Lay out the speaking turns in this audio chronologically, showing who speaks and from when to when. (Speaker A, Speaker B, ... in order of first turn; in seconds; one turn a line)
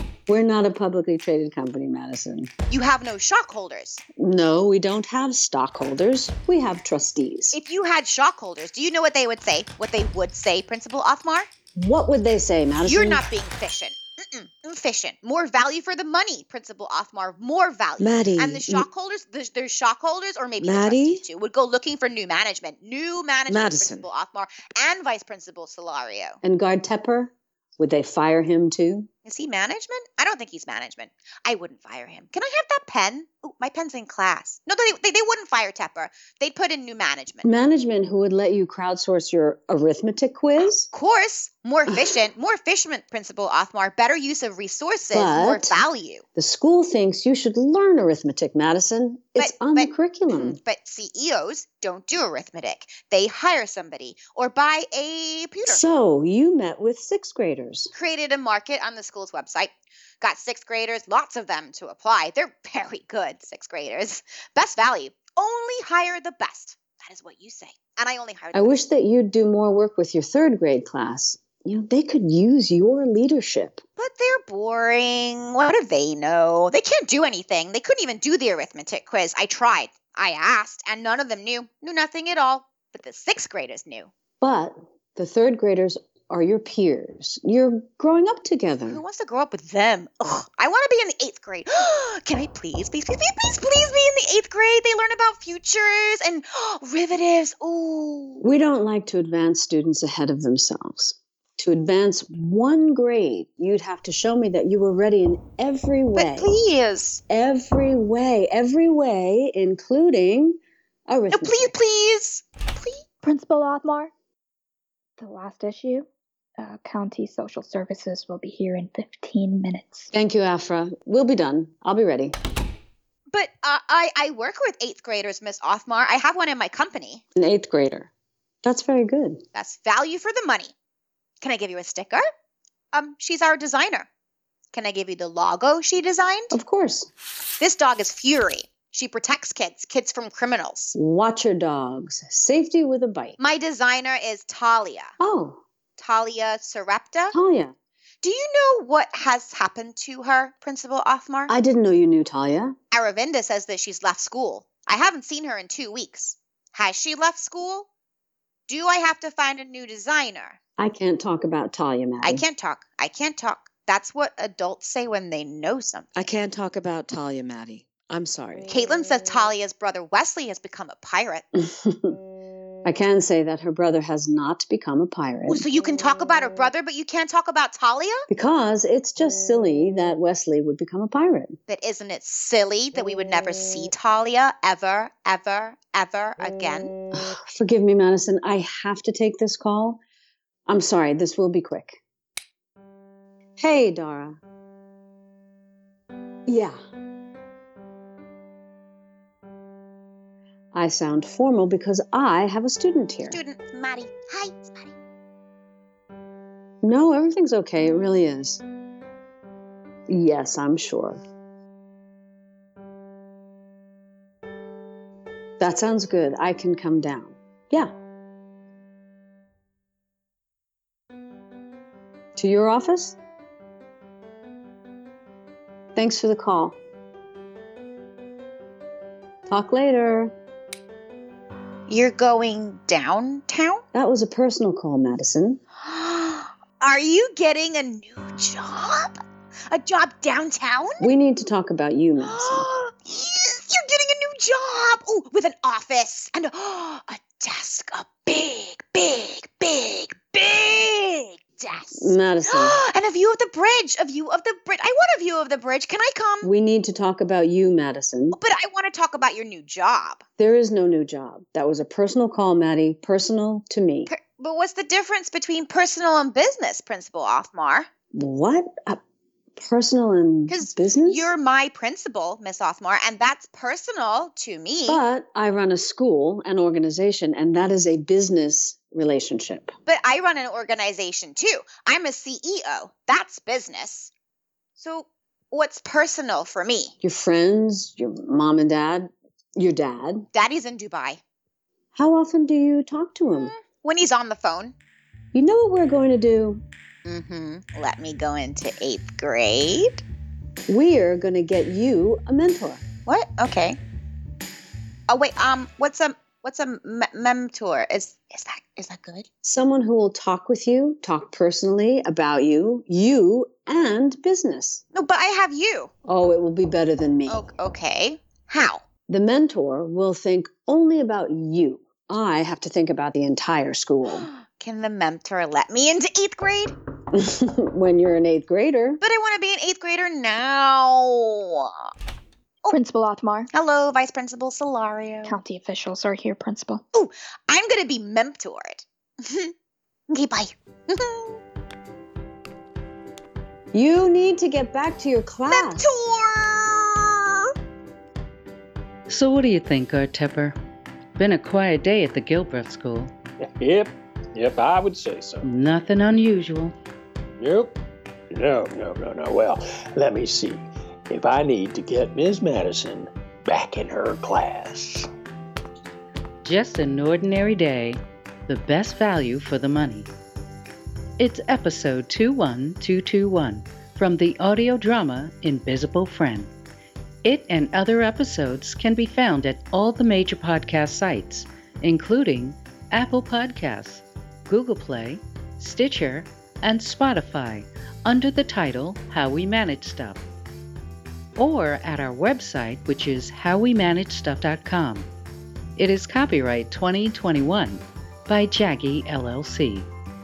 Speaker A: 0.3-2.5
Speaker B: 2.7-4.0
Speaker A: 4.2-7.6
Speaker B: 7.5-11.5
Speaker A: 11.8-13.2
Speaker B: 12.8-26.4
Speaker A: 18.0-18.8
Speaker A: 20.6-21.2
Speaker A: 23.5-24.1
Speaker A: 26.4-29.1
Speaker B: 29.2-37.5
Speaker A: 37.4-40.9
Speaker B: 40.9-46.2
Speaker A: 41.9-42.2
Speaker A: 45.1-45.8
Speaker A: 46.4-50.6
Speaker B: 49.4-55.8
Speaker A: 55.6-57.9
Speaker B: 57.9-68.8
Speaker A: 68.5-73.8
Speaker B: 74.0-84.1
Speaker A: 84.4-89.0
Speaker B: 88.8-98.4
Speaker A: 98.4-106.5
Speaker B: 106.1-107.2
Speaker A: 107.3-110.6
Speaker A: 111.1-111.7
Speaker B: 111.3-113.0
Speaker C: 113.2-114.1
Speaker C: 115.2-116.1
Speaker C: 116.6-120.1
Speaker A: 120.1-122.4
Speaker B: 123.3-127.2
Speaker A: 127.3-128.1
Speaker A: 128.6-129.4
Speaker B: 129.5-130.7
Speaker B: 131.4-132.2
Speaker B: 132.9-134.1
Speaker B: 134.7-136.6
Speaker A: 136.5-137.1
Speaker B: 137.6-140.9
Speaker A: 140.9-143.4
Speaker B: 143.4-145.1
Speaker A: 145.2-145.6
Speaker B: 146.0-147.3
Speaker A: 147.3-147.7
Speaker B: 148.2-151.5
Speaker A: 151.5-152.7
Speaker B: 152.9-157.9
Speaker B: 158.7-160.6
Speaker A: 160.8-162.4
Speaker B: 162.2-166.3
Speaker A: 166.2-168.7
Speaker B: 168.7-171.4
Speaker A: 171.6-172.2
Speaker A: 172.8-175.6
Speaker B: 175.4-178.2
Speaker A: 178.3-181.6
Speaker B: 181.7-186.9
Speaker A: 187.1-190.0
Speaker A: 190.7-192.0
Speaker A: 193.6-194.4
Speaker A: 196.5-196.8
Speaker A: 200.7-203.4
Speaker B: 203.3-204.9
Speaker A: 206.8-208.6
Speaker A: 210.1-211.2
Speaker A: 215.6-217.9
Speaker A: 222.3-223.2
Speaker A: 225.9-226.8
Speaker A: 229.5-230.3
Speaker B: 231.9-233.8
Speaker A: 233.9-235.6
Speaker B: 235.8-239.2
Speaker B: 239.7-241.0
Speaker A: 241.0-242.7
Speaker B: 242.2-256.5
Speaker A: 252.0-252.8
Speaker A: 256.4-258.4
Speaker B: 258.4-260.2
Speaker A: 260.4-264.1
Speaker B: 264.1-267.9
Speaker A: 268.1-269.0
Speaker A: 269.6-271.3
Speaker B: 270.5-275.0
Speaker A: 274.9-279.7
Speaker B: 279.9-284.1
Speaker B: 284.8-286.9
Speaker A: 287.0-290.3
Speaker B: 290.3-291.2
Speaker A: 291.9-293.5
Speaker B: 293.3-294.7
Speaker A: 295.3-296.6
Speaker B: 297.1-300.0
Speaker A: 300.7-302.8
Speaker B: 303.1-303.8
Speaker B: 305.1-309.2
Speaker A: 309.4-314.8
Speaker B: 314.9-315.9
Speaker A: 316.1-317.4
Speaker B: 317.3-318.8
Speaker A: 319.1-324.3
Speaker B: 324.1-326.7
Speaker A: 327.1-329.0
Speaker B: 329.0-331.9
Speaker C: 332.7-333.5
Speaker B: 333.5-335.4
Speaker C: 335.2-336.8
Speaker B: 336.9-339.5
Speaker B: 340.1-341.4
Speaker A: 343.7-345.9
Speaker B: 345.5-347.2
Speaker D: 349.1-350.6
Speaker D: 351.2-353.1
Speaker E: 353.4-355.4
Speaker D: 355.4-356.7
Speaker E: 357.4-357.8
Speaker E: 358.3-365.0
Speaker D: 366.4-370.1
Speaker D: 371.2-376.5
Speaker D: 377.2-390.2
Speaker D: 391.4-395.1
Speaker D: 395.8-399.9